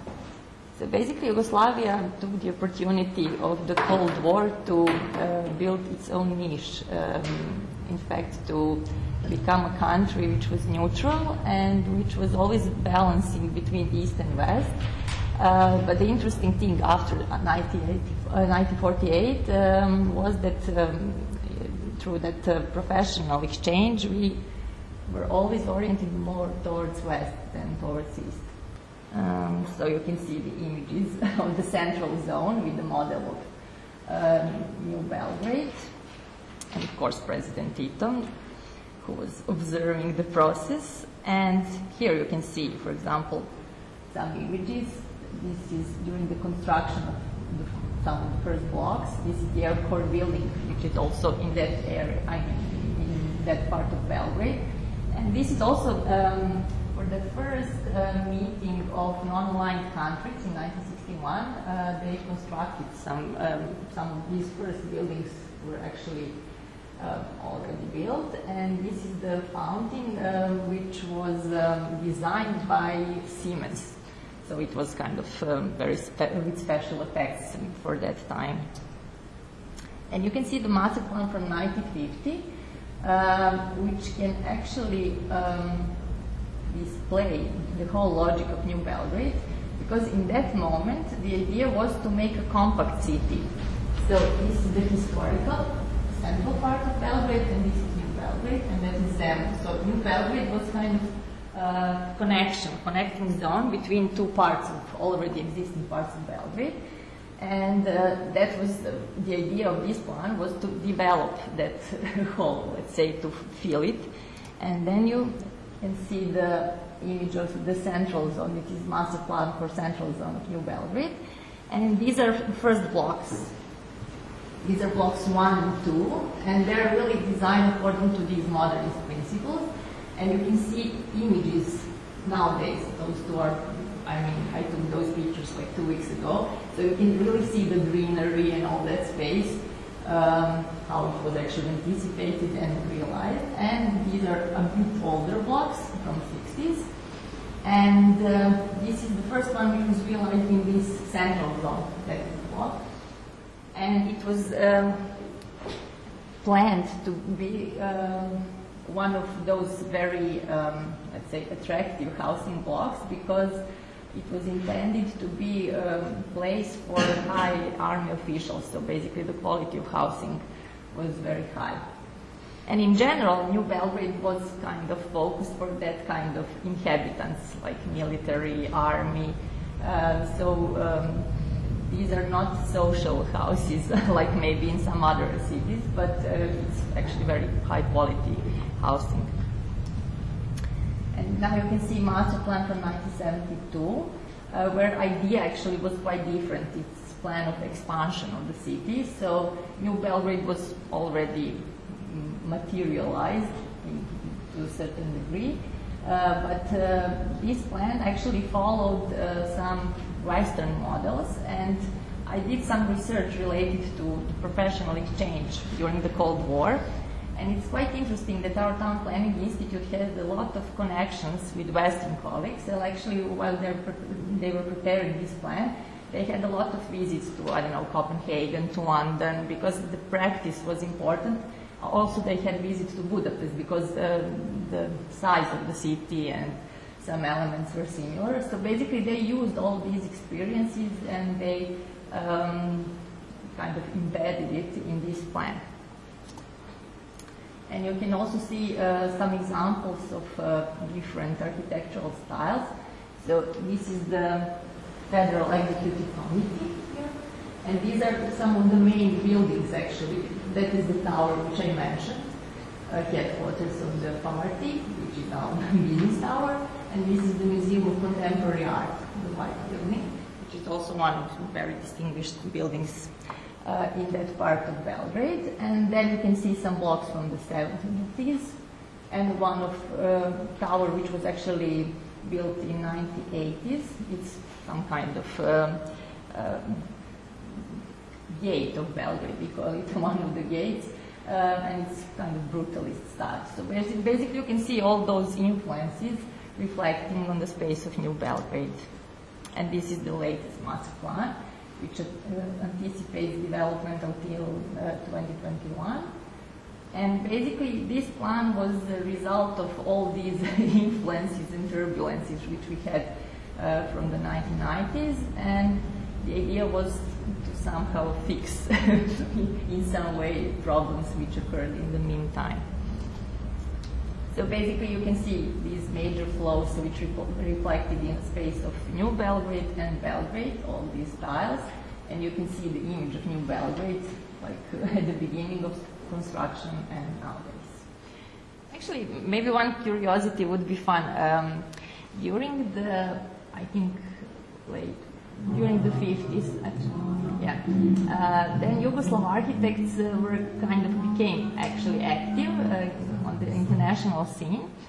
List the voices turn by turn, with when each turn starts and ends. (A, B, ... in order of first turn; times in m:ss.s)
0:00.8-0:14.8 A
0:15.3-0:24.4 A
0:25.0-0:33.5 A
0:34.0-0:36.1 A
0:36.7-0:43.5 A
0:44.1-1:06.4 A
1:07.0-1:18.7 A
1:20.1-1:22.5 A
1:23.0-1:46.8 A
1:47.4-2:01.2 A
2:01.7-2:03.8 A
2:04.6-2:35.5 A
2:36.4-2:43.6 A
2:44.1-2:51.8 A
2:52.6-3:09.4 A
3:11.1-3:36.8 A
3:37.3-4:03.0 A
4:03.5-4:05.6 A
4:07.7-4:22.3 A
4:22.9-4:47.6 A
4:48.3-5:06.1 A
5:06.9-5:22.8 A
5:24.3-5:37.9 A
5:38.7-5:54.7 A